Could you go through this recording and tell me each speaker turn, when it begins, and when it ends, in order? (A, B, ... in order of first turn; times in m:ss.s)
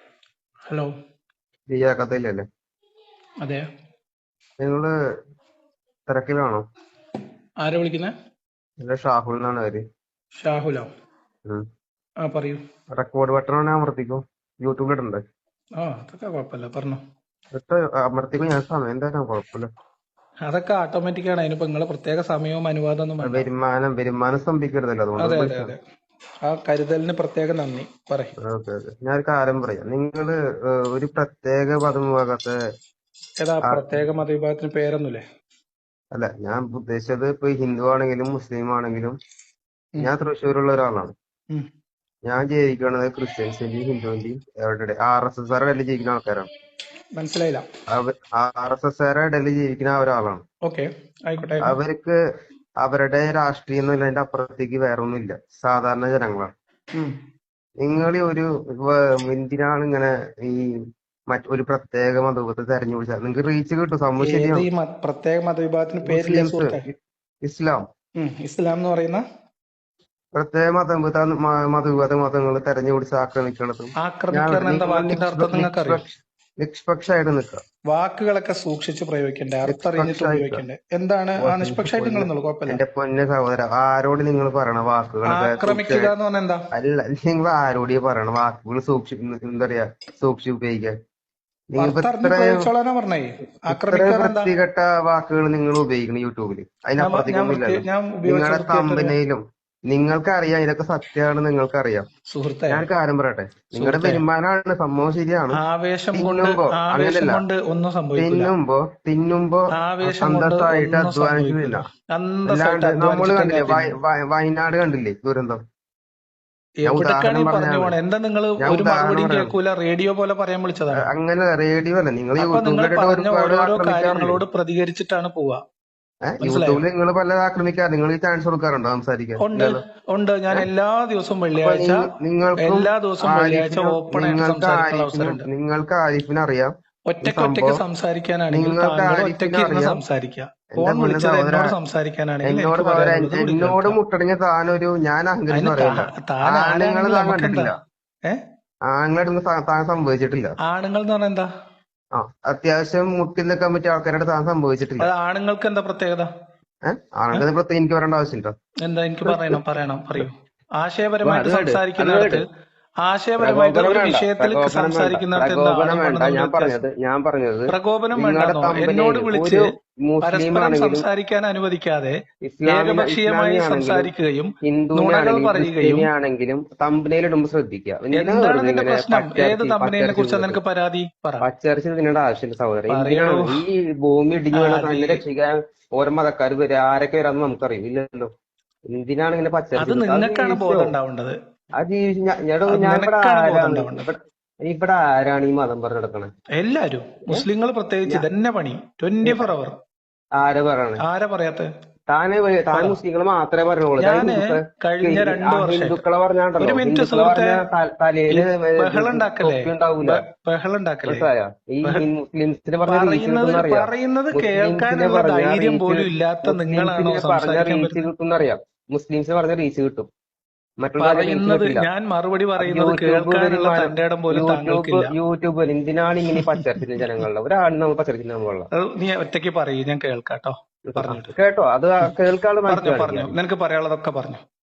0:00.7-0:00.9 A
0:01.7-0:02.4 B
0:04.6-0:04.9 B
0:06.1-0:06.6 B
0:07.6-0:08.1 A
0:08.8-0:09.8 B
0:10.4-0:10.9 A
0:12.2-0:12.6 A
0:12.9-0:15.2 B
0:15.8-0:17.0 A
0:17.5-0:19.7 B
0:20.4-0:23.5 A
0:23.2-0:25.7 B
0:25.2-0:25.8 A
0:26.4-0:28.3 A
0:28.4-0:32.6 B
0:33.4-0:35.2 A
0:33.6-0:33.9 B
0:36.1-0:39.2 B
0:40.0-0:41.1 B
0:42.2-0:46.5 B
0:47.1-0:47.7 A
0:47.9-0:50.4 B
0:50.6-0:51.7 A
0:51.6-0:52.2 B
0:52.8-0:56.5 B
0:56.9-0:57.2 A
0:57.8-1:04.6 B
1:04.2-1:06.8 A
1:06.0-1:07.8 B
1:08.2-1:09.2 A
1:10.3-1:17.6 B
1:14.0-1:16.0 A
1:17.9-1:22.8 A
1:19.7-1:20.6 B
1:21.4-1:26.1 B
1:25.3-1:26.6 A
1:26.7-1:30.9 B
1:31.7-1:32.7 B
1:31.8-1:34.5 A
1:33.7-1:42.1 B
1:37.0-1:39.2 A
1:42.3-1:42.9 A
1:42.7-1:45.6 B
1:43.8-1:44.2 A
1:45.5-1:48.5 A
1:46.1-1:47.4 B
1:48.2-1:51.8 B
1:49.7-1:54.0 A
1:52.5-1:55.6 B
1:56.8-2:01.0 A
1:56.8-1:57.9 B
1:58.6-1:59.5 B
2:00.9-2:04.4 B
2:02.4-2:05.6 A
2:06.2-2:09.8 B
2:06.4-2:06.8 A
2:09.4-2:15.5 A
2:11.6-2:17.8 B
2:17.1-2:24.0 A
2:18.5-2:20.0 B
2:20.8-2:21.7 B
2:22.4-2:27.8 B
2:25.5-2:27.7 A
2:28.9-2:30.6 B
2:30.6-2:31.5 A
2:32.1-2:35.1 B
2:35.0-2:36.3 A
2:36.8-2:38.6 B
2:38.8-2:42.4 A
2:39.2-2:39.6 B
2:41.2-2:42.4 B
2:43.0-2:46.8 A
2:43.4-2:51.0 B
2:47.7-2:56.1 A
2:52.4-2:54.1 B
2:54.6-3:00.6 B
2:58.1-3:01.4 A
3:01.4-3:08.3 B
3:02.9-3:03.6 A
3:04.5-3:05.2 A
3:08.9-3:10.9 B
3:09.8-3:11.4 A
3:11.8-3:16.3 B
3:12.7-3:14.1 A
3:16.5-3:19.8 A
3:19.2-3:19.5 B
3:20.3-3:21.0 B
3:21.0-3:21.7 A
3:22.1-3:30.2 B
3:22.7-3:23.0 A
3:24.0-3:26.0 A
3:26.6-3:27.6 A
3:28.3-3:31.3 A
3:31.0-3:40.1 B
3:32.8-3:38.1 A
3:40.8-3:41.9 B
3:41.0-3:45.1 A
3:42.6-3:48.7 B
3:48.7-3:51.3 A
3:50.8-3:53.3 B
3:52.7-3:54.4 A